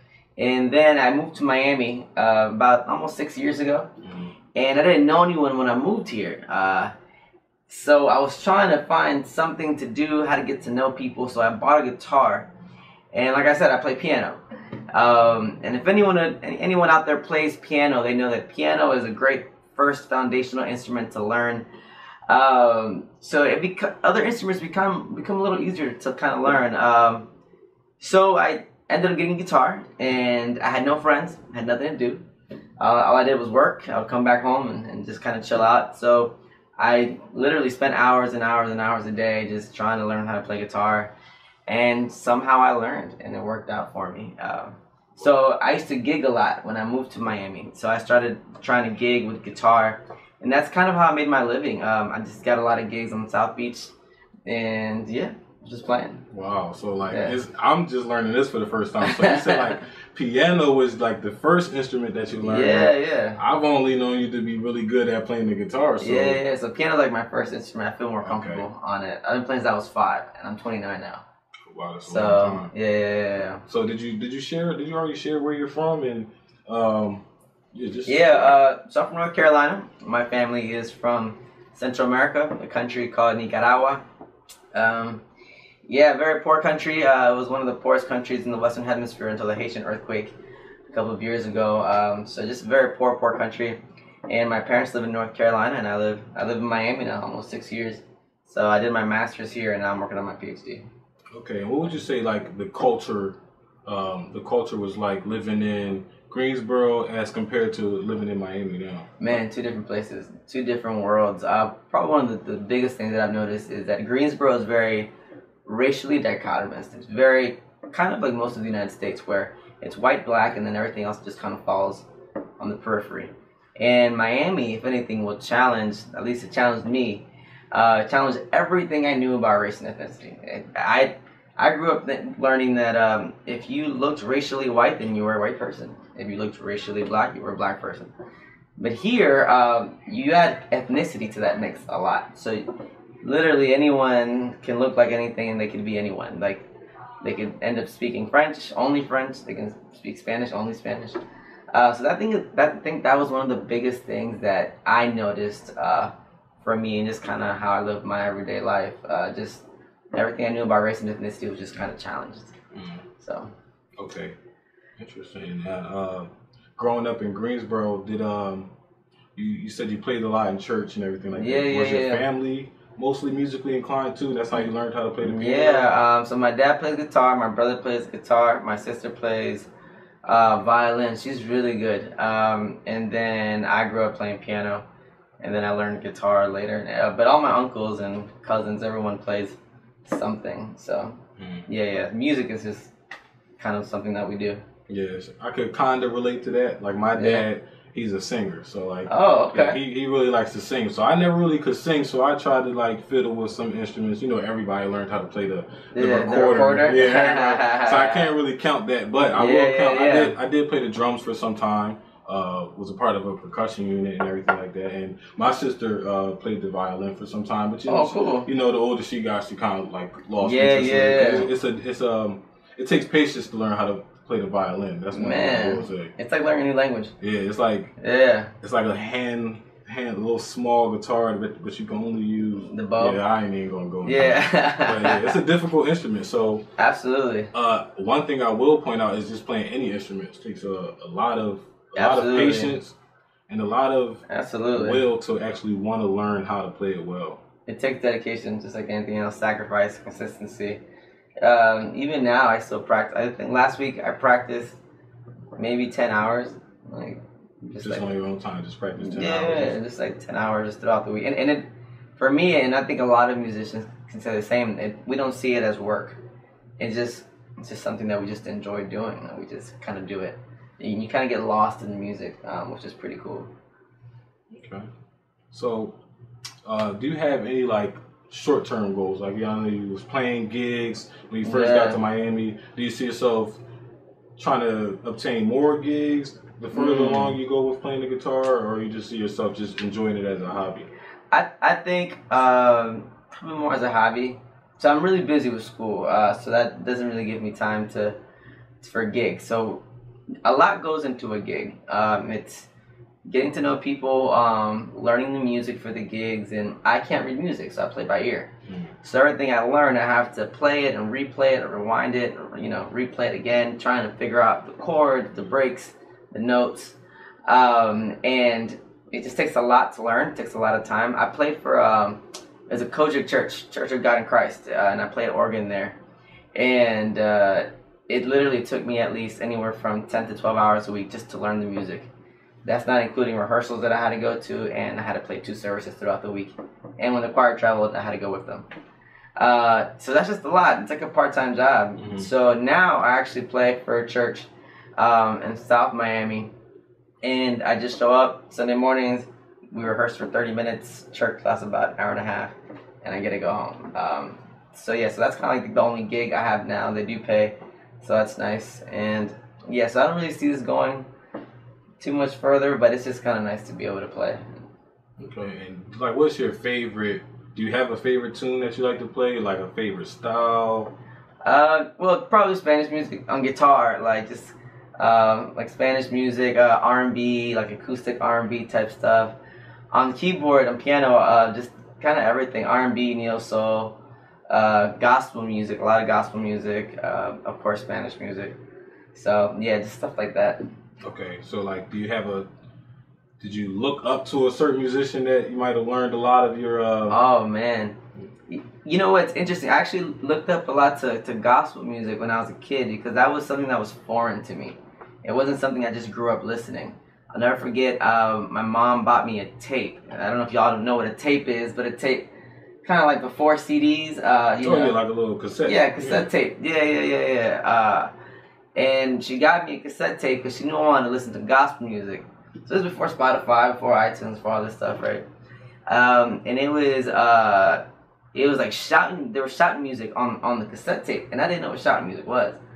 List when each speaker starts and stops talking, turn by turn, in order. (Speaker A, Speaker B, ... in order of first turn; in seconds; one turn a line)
Speaker A: 0.4-3.9
Speaker B: 4.0-4.3
Speaker A: 4.5-6.9
Speaker A: 7.7-12.5
Speaker A: 13.1-14.4
Speaker A: 14.9-21.6
Speaker A: 22.3-27.3
Speaker A: 28.0-32.2
Speaker A: 32.8-41.1
Speaker A: 41.7-53.9
Speaker A: 54.5-56.3
Speaker B: 56.3-66.4
Speaker A: 57.1-57.4
Speaker A: 59.0-59.8
Speaker A: 62.4-63.4
Speaker A: 66.0-71.2
Speaker B: 68.2-68.6
Speaker B: 71.7-72.7
Speaker A: 72.1-73.6
Speaker B: 73.7-78.6
Speaker A: 78.0-84.0
Speaker A: 84.7-85.2
Speaker A: 85.8-90.3
Speaker A: 90.9-100.9
Speaker B: 101.3-109.1
Speaker A: 109.2-115.1
Speaker A: 115.7-122.0
Speaker A: 122.6-138.1
Speaker A: 138.8-142.6
Speaker A: 143.2-146.6
Speaker A: 147.2-151.2
Speaker A: 151.7-162.5
Speaker B: 162.7-163.1
Speaker A: 163.2-163.5
Speaker B: 163.9-164.3
Speaker B: 165.0-168.7
Speaker B: 169.3-175.9
Speaker A: 171.3-172.2
Speaker A: 175.3-179.7
Speaker A: 180.2-184.8
Speaker A: 185.4-192.9
Speaker B: 191.4-191.7
Speaker A: 193.6-194.6
Speaker B: 194.9-226.1
Speaker A: 197.1-197.4
Speaker A: 199.1-199.8
Speaker A: 205.9-208.3
Speaker A: 209.3-210.3
Speaker A: 217.9-218.5
Speaker A: 220.4-221.5
Speaker A: 225.1-227.1
Speaker B: 227.2-227.9
Speaker A: 228.0-228.5
Speaker B: 228.6-236.6
Speaker A: 232.7-233.2
Speaker A: 234.0-235.4
Speaker A: 236.8-237.5
Speaker B: 237.5-242.9
Speaker A: 241.9-242.7
Speaker B: 243.5-247.4
Speaker A: 244.3-245.0
Speaker A: 247.7-250.8
Speaker A: 251.4-254.8
Speaker A: 255.6-258.1
Speaker B: 257.8-259.8
Speaker A: 259.0-266.2
Speaker A: 266.8-273.5
Speaker B: 274.5-274.9
Speaker B: 275.5-275.9
Speaker B: 276.6-283.6
Speaker A: 281.4-282.0
Speaker B: 284.4-290.9
Speaker A: 286.7-287.4
Speaker A: 291.3-298.2
Speaker A: 298.8-299.8
Speaker A: 300.4-302.7
Speaker A: 303.3-308.5
Speaker B: 308.7-308.9
Speaker A: 309.0-326.0
Speaker A: 326.5-332.1
Speaker A: 332.6-338.6
Speaker A: 339.4-346.5
Speaker B: 342.0-342.3
Speaker A: 347.2-361.1
Speaker A: 362.0-364.6
Speaker B: 365.2-370.9
Speaker A: 371.4-379.3
Speaker A: 379.9-383.9
Speaker A: 384.5-388.5
Speaker A: 389.1-390.6
Speaker B: 391.0-392.5
Speaker B: 393.4-397.2
Speaker A: 397.1-398.0
Speaker A: 398.5-412.3
Speaker A: 412.8-415.0
Speaker B: 414.6-416.3
Speaker A: 415.6-418.1
Speaker A: 418.7-425.2
Speaker A: 425.9-427.8
Speaker A: 428.3-432.6